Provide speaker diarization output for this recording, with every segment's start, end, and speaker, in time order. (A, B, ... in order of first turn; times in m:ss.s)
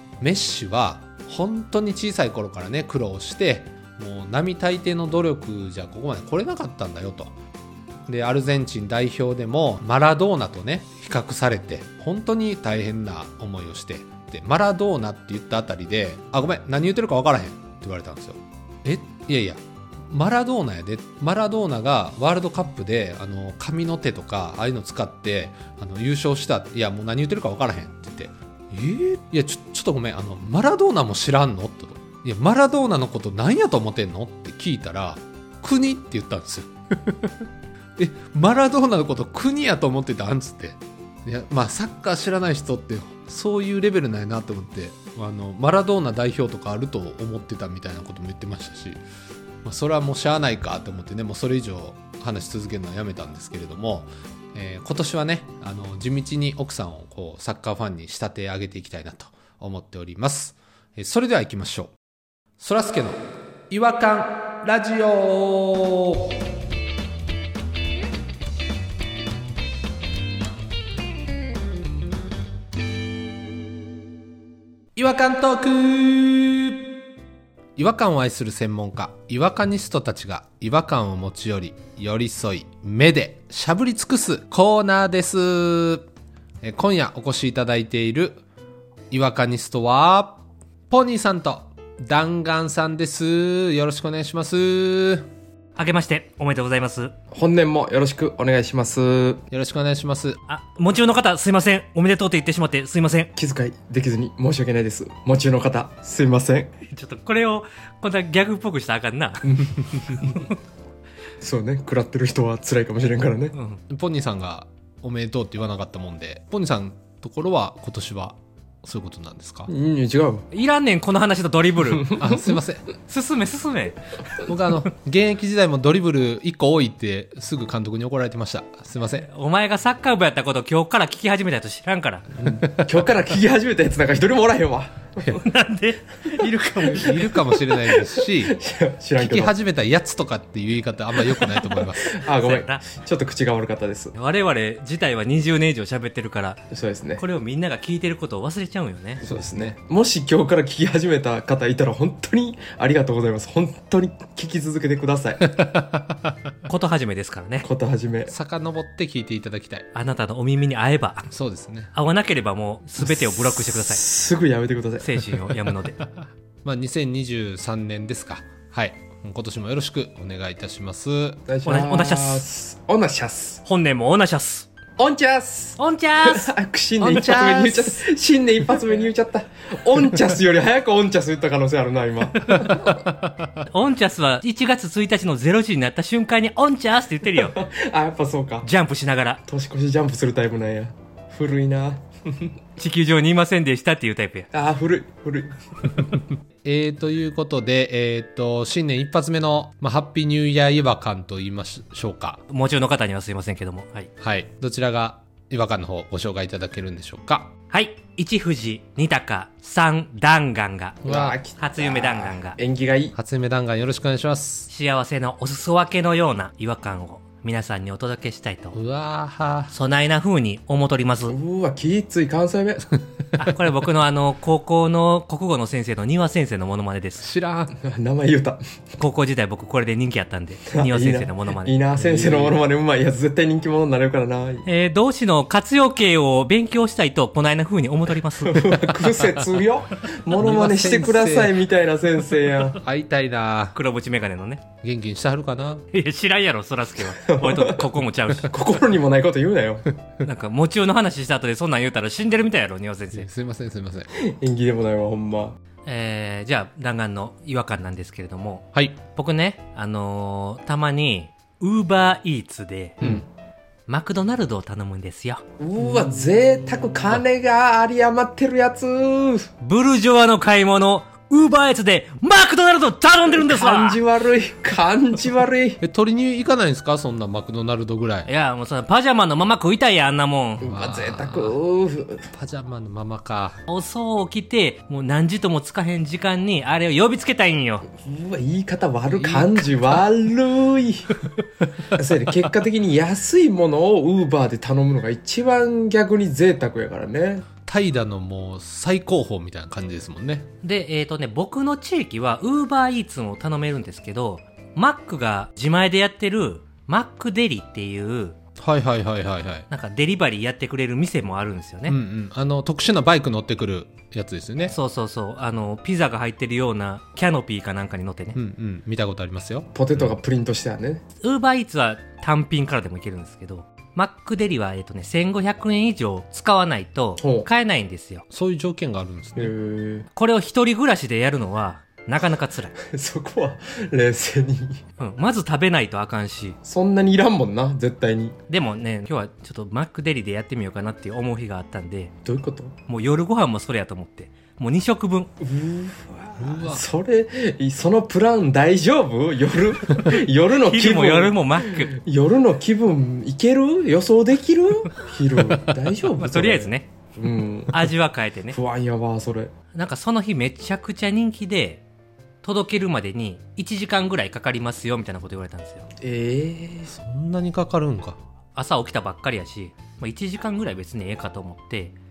0:00.2-0:07.3 A
0:08.1-0:37.4 A
0:38.0-0:49.0 A
0:49.6-1:01.9 A
1:02.6-1:06.4 A
1:14.9-1:16.8 A
1:17.8-1:26.1 A
1:26.6-1:28.4 A
1:29.1-1:35.3 A
1:35.8-1:37.1 B
1:37.3-1:39.4 C
1:39.5-1:40.4 A
1:40.5-1:43.3 B
1:43.4-1:46.7 C
1:46.9-1:49.5 B
1:49.4-1:50.3 C
1:50.1-1:50.6 B
1:51.4-1:53.5 C
1:53.5-1:53.8 B
1:53.9-1:59.7 A
1:59.7-2:00.4 C
2:00.5-2:02.1 B
2:01.9-2:02.5 C
2:02.2-2:02.8 A
2:03.1-2:04.1 B
2:04.4-2:09.2 A
2:09.1-2:12.3 B
2:12.4-2:15.4 C
2:12.6-2:12.9 A
2:15.3-2:17.2 B
2:16.8-2:18.6 A
2:16.9-2:19.5 C
2:19.2-2:22.1 A
2:21.3-2:24.1 C
2:22.4-2:22.8 B
2:24.1-2:26.6 B
2:26.7-2:27.2 C
2:27.2-2:29.2 B
2:29.2-2:29.7 A
2:29.2-2:35.5 C
2:35.4-2:36.3 A
2:36.7-2:37.7 B
2:37.6-2:38.3 C
2:38.3-2:39.9 A
2:39.9-2:41.3 B
2:41.3-2:41.9 A
2:41.9-2:44.0 B
2:43.7-2:45.1 C
2:45.0-2:46.0 B
2:45.5-2:51.4 A
2:51.5-2:53.6 C
2:51.7-2:52.4 B
2:53.6-2:54.7 B
2:55.0-3:02.9 C
2:55.8-2:56.5 B
2:57.0-2:58.0 A
3:02.5-3:03.6 A
3:03.7-3:07.6 B
3:07.4-3:08.7 C
3:08.6-3:09.4 B
3:09.5-3:12.5 C
3:12.8-3:14.5 B
3:14.5-3:16.0 C
3:16.2-3:22.4 A
3:22.5-3:24.1 B
3:24.2-3:27.5 A
3:27.7-3:31.0 B
3:31.0-3:31.4 A
3:31.0-3:33.2 C
3:31.6-3:32.6 B
3:33.2-3:34.7 A
3:34.7-3:38.8 B
3:38.7-3:39.7 A
3:39.7-3:41.4 B
3:41.3-3:43.0 C
3:43.4-3:47.3 B
3:47.2-3:47.7 A
3:47.7-3:48.6 C
3:49.0-3:51.8 B
3:50.7-3:54.6 C
3:52.0-3:52.6 A
3:54.6-3:58.8 B
3:58.4-4:02.8 C
4:00.4-4:01.6 A
4:02.7-4:03.7 A
4:03.7-4:04.6 B
4:04.8-4:05.8 A
4:05.9-4:08.5 B
4:07.1-4:07.8 C
4:08.5-4:09.8 C
4:10.2-4:13.3 B
4:13.1-4:14.1 A
4:14.2-4:15.6 C
4:15.8-4:23.0 B
4:23.9-4:25.4 B
4:25.6-4:29.5 C
4:29.6-4:34.0 B
4:33.3-4:35.8 C
4:35.8-4:38.3 A
4:38.2-4:40.7 B
4:40.6-4:42.2 C
4:40.6-4:41.5 A
4:42.3-4:43.6 A
4:43.7-4:47.9 B
4:47.9-4:51.1 C
4:49.1-4:50.0 A
4:52.0-4:57.5 C
4:57.6-5:00.5 A
5:00.6-5:08.4 B
5:08.6-5:09.7 A
5:09.7-5:12.0 B
5:11.9-5:14.8 A
5:14.6-5:18.4 B
5:18.4-5:20.1 A
5:19.7-5:21.0 C
5:21.2-5:28.2 B
5:27.2-5:27.5 C
5:28.3-5:29.5 A
5:29.4-5:30.1 C
5:30.1-5:32.8 B
5:32.9-5:34.8 C
5:35.0-5:36.6 B
5:36.6-5:38.4 C
5:38.5-5:42.1 B
5:42.2-5:42.8 C
5:42.9-5:45.3 B
5:45.4-5:57.8 C
5:46.4-5:46.8 A
5:50.5-5:51.9 B
5:56.1-5:56.9 B
5:57.7-5:58.6 B
5:58.5-5:59.5 C
5:59.7-6:01.8 B
6:02.4-6:05.9 B
6:06.0-6:06.9 C
6:06.9-6:08.2 A
6:08.5-6:12.0 B